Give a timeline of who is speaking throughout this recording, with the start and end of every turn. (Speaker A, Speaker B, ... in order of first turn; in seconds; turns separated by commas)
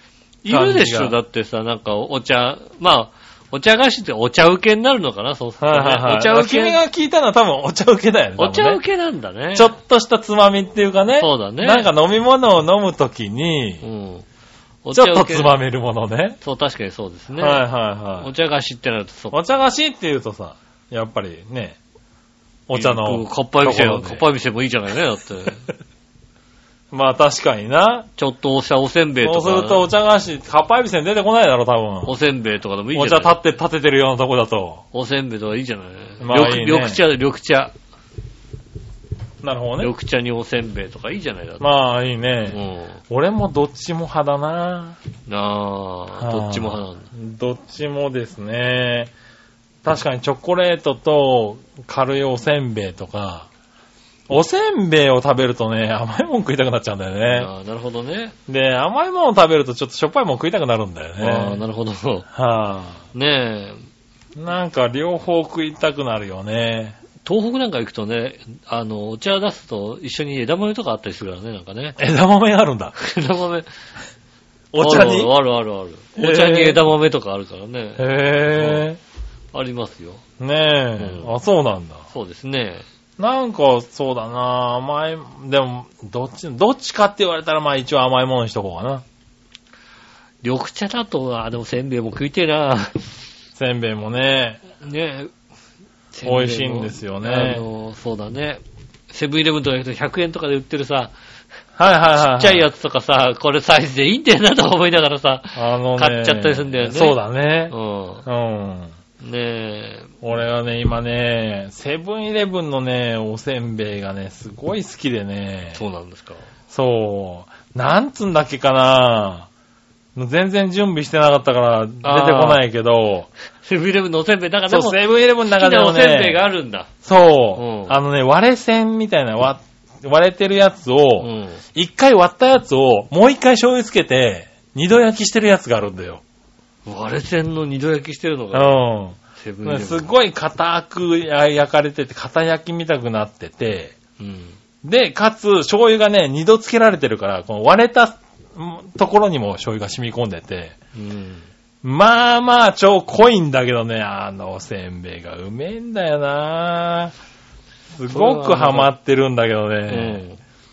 Speaker A: 0.4-6.8, Speaker B: 0.5-1.2, Speaker B: 5.6-8.8, Speaker A: 8.4-9.8, Speaker B: 9.5-13.8, Speaker A: 11.2-11.9, Speaker A: 13.8-14.2, Speaker A: 14.8-15.6, Speaker B: 14.9-16.4, Speaker A: 16.4-17.6, Speaker B: 17.4-18.3, Speaker A: 18.2-19.4, Speaker B: 19.3-21.8, Speaker B: 22.7-24.2, Speaker A: 22.7-25.7, Speaker B: 26.9-28.1, Speaker A: 28.2-29.9, Speaker B: 29.2-32.1, Speaker A: 32.0-33.4, Speaker B: 32.9-34.8, Speaker A: 34.9-37.7, Speaker B: 36.2-37.0, Speaker B: 39.4-39.9, Speaker A: 39.8-41.6, Speaker B: 41.6-45.0, Speaker A: 42.5-43.0, Speaker A: 45.3-47.1, Speaker B: 46.2-49.1, Speaker B: 49.8-53.5, Speaker B: 54.3-57.5, Speaker A: 57.3-58.4, Speaker B: 58.5-61.6, Speaker A: 61.2-62.3, Speaker B: 62.3-63.0, Speaker A: 63.1-63.8, Speaker B: 64.3-67.0, Speaker A: 67.2-72.0, Speaker B: 72.0-72.9, Speaker A: 73.0-73.7, Speaker B: 74.7-75.3, Speaker A: 74.8-78.9, Speaker B: 76.2-76.8, Speaker B: 78.0-79.0, Speaker A: 79.5-80.2, Speaker B: 80.4-82.0, Speaker A: 81.0-81.3, Speaker A: 82.1-82.8, Speaker B: 83.2-89.0, Speaker A: 90.4-93.1, Speaker B: 93.5-94.6, Speaker A: 94.8-95.3, Speaker A: 96.1-101.1, Speaker B: 96.2-97.6, Speaker B: 101.8-102.6, Speaker A: 102.1-107.2, Speaker B: 105.5-107.7, Speaker A: 107.7-108.2, Speaker B: 108.2-108.9, Speaker A: 109.2-110.1, Speaker B: 110.2-115.8, Speaker A: 115.7-116.5, Speaker B: 116.7-119.5, Speaker B: 120.1-123.3, Speaker A: 122.0-122.6, Speaker A: 123.6-126.9, Speaker B: 124.7-126.4, Speaker B: 127.0-136.2, Speaker A: 127.5-128.0, Speaker A: 131.2-131.6, Speaker A: 136.8-138.8, Speaker B: 138.5-143.9, Speaker A: 139.3-140.1, Speaker A: 144.2-144.6, Speaker B: 144.8-150.7, Speaker A: 150.9-151.5, Speaker B: 151.8-157.1, Speaker B: 157.9-160.2, Speaker A: 158.1-158.9, Speaker A: 159.9-160.4